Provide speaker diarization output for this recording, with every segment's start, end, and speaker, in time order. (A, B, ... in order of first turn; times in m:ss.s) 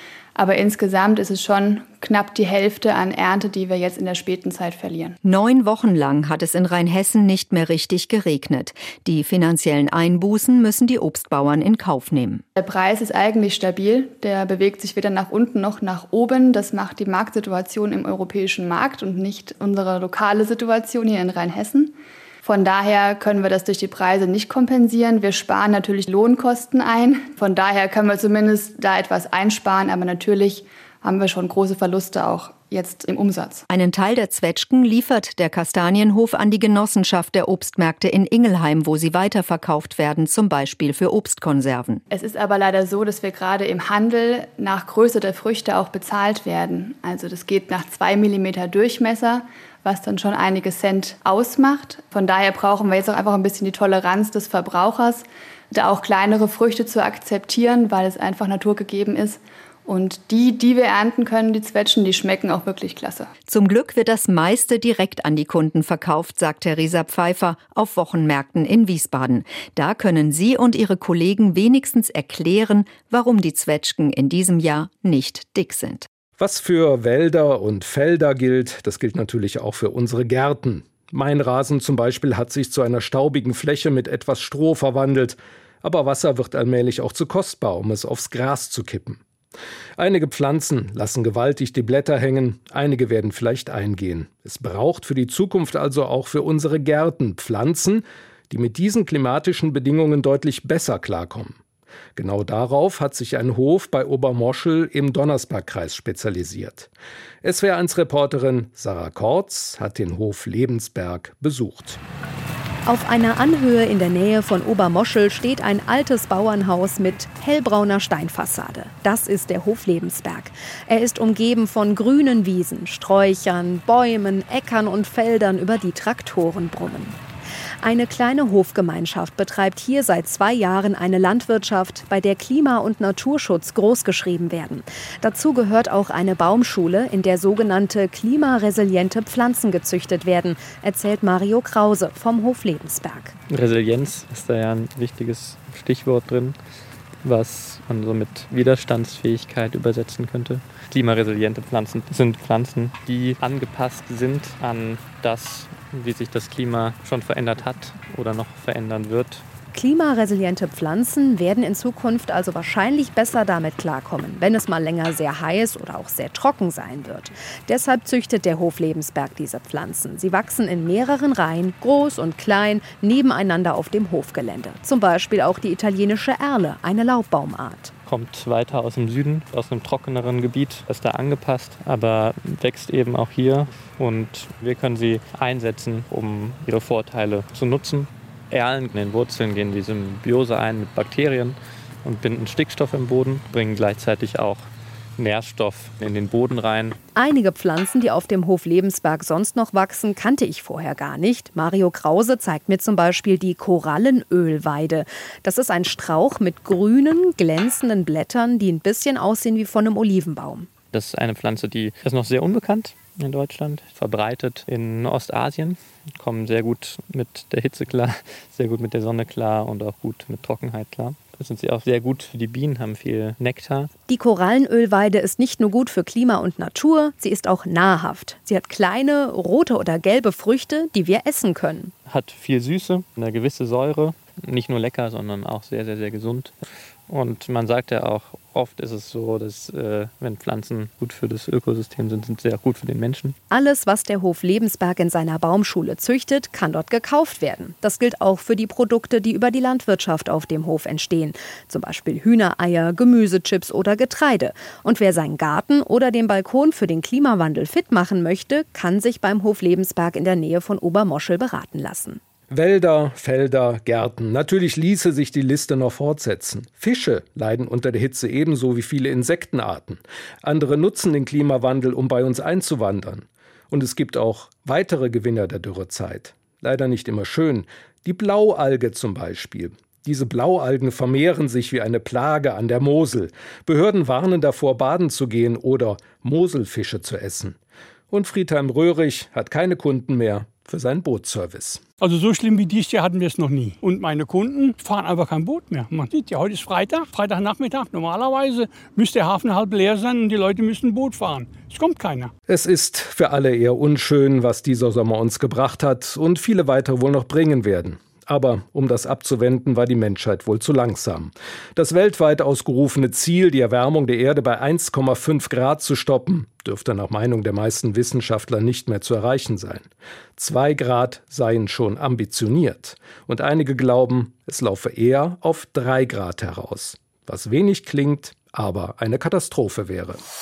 0:00.4-0:05.2 A
0:05.2-0:12.4 B
0:12.6-0:33.7 A
0:33.7-0:42.0 B
0:42.1-1:03.3 A
1:03.5-1:16.1 B
1:16.4-1:29.2 C
1:30.0-1:41.6 C
1:42.2-1:46.9 C
1:47.4-1:52.0 C
1:52.9-2:07.2 D
2:07.8-2:23.4 D
2:23.5-2:26.6 E
2:27.2-2:39.4 E
2:39.7-2:57.9 D
2:58.1-3:17.0 E
3:17.2-3:30.7 D
3:30.9-3:43.9 E
3:44.1-3:51.9 D
3:52.1-3:56.6 E
3:57.1-4:03.4 E
4:03.5-4:22.2 D
4:22.5-4:47.6 C
4:48.1-4:51.8 C
4:52.0-5:02.3 F
5:02.5-5:30.2 C